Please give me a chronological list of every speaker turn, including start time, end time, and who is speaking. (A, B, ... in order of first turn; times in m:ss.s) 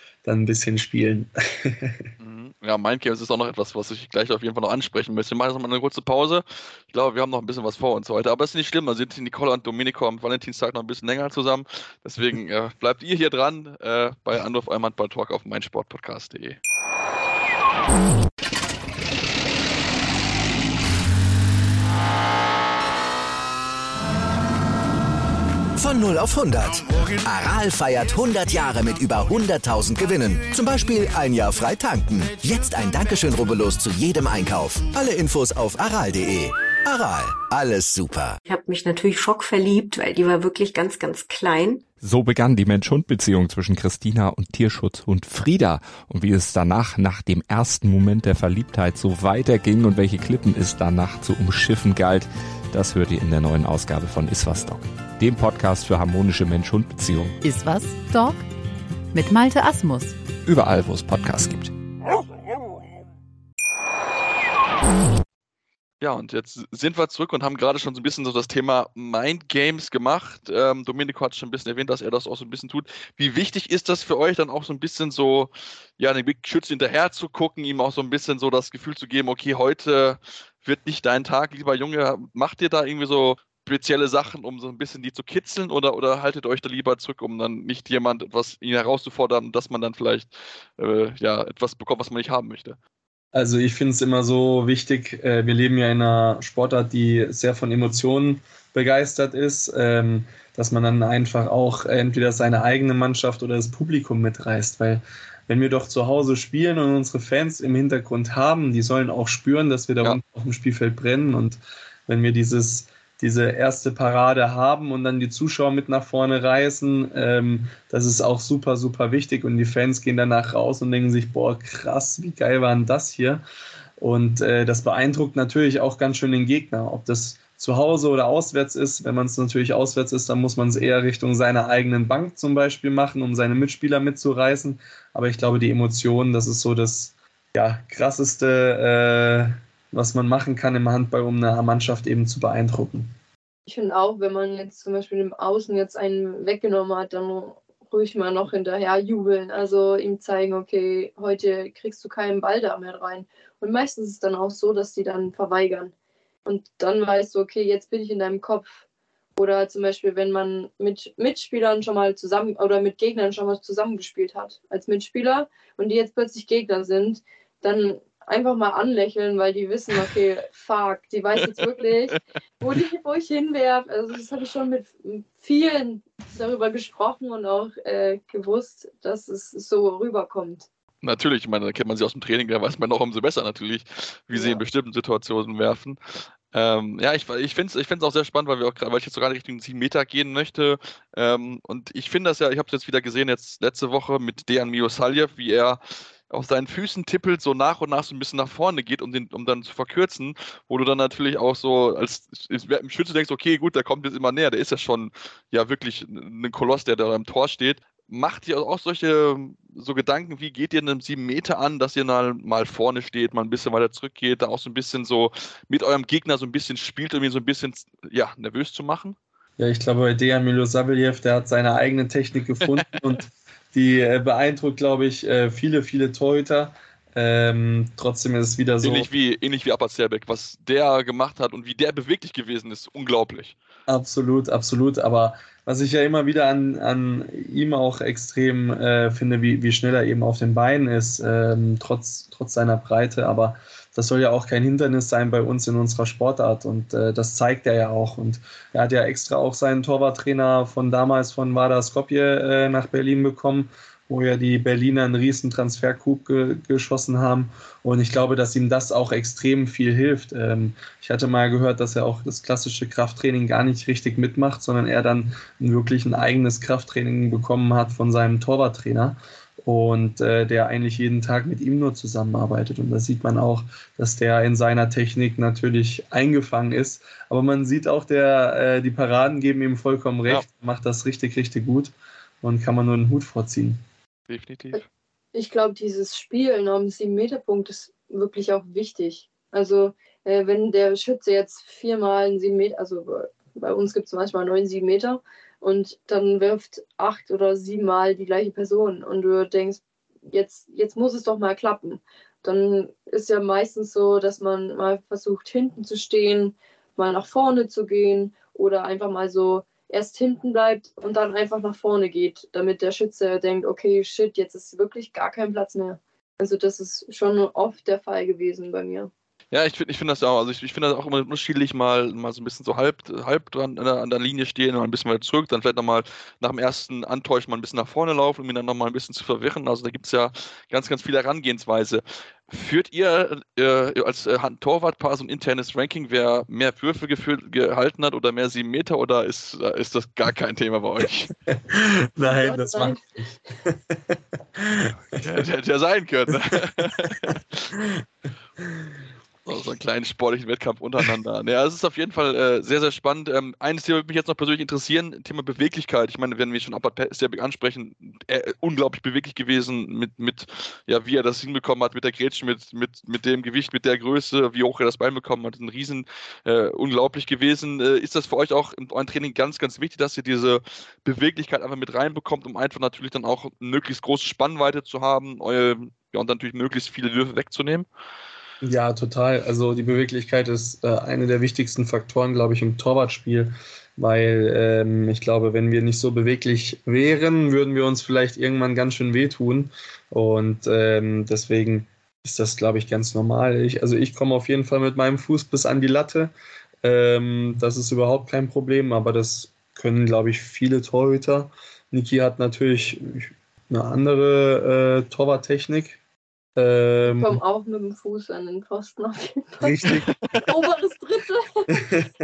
0:00.2-0:02.1 A
0:02.2-0:16.6 B
0:25.8-0:38.4 C
0:38.4-0:41.9 D
0:42.0-0:57.4 E
0:57.4-0:58.4 F
0:59.1-1:00.1 F
1:00.4-1:01.7 E
1:06.0-1:32.8 B
1:33.3-2:03.4 A
2:04.0-2:23.1 A
2:23.7-2:35.9 G
2:36.4-2:38.7 G
2:39.4-3:00.7 G
3:01.0-3:06.0 B
3:04.3-3:04.6 G
3:06.5-3:39.2 B
3:39.6-3:49.1 A
3:48.8-3:53.6 B
3:53.9-4:43.8 A
4:44.3-4:44.8 B
4:45.3-5:19.1 G
5:19.5-5:41.3 B
5:41.5-5:45.2 A
5:42.2-5:43.0 G
5:45.1-5:47.7 B
5:46.5-5:48.0 A
5:48.6-5:48.9 A
5:49.4-6:17.9 B
6:18.6-6:46.0 A
6:46.6-6:47.4 A
6:47.0-6:49.8 G
6:49.6-6:50.1 A
6:50.4-6:51.9 G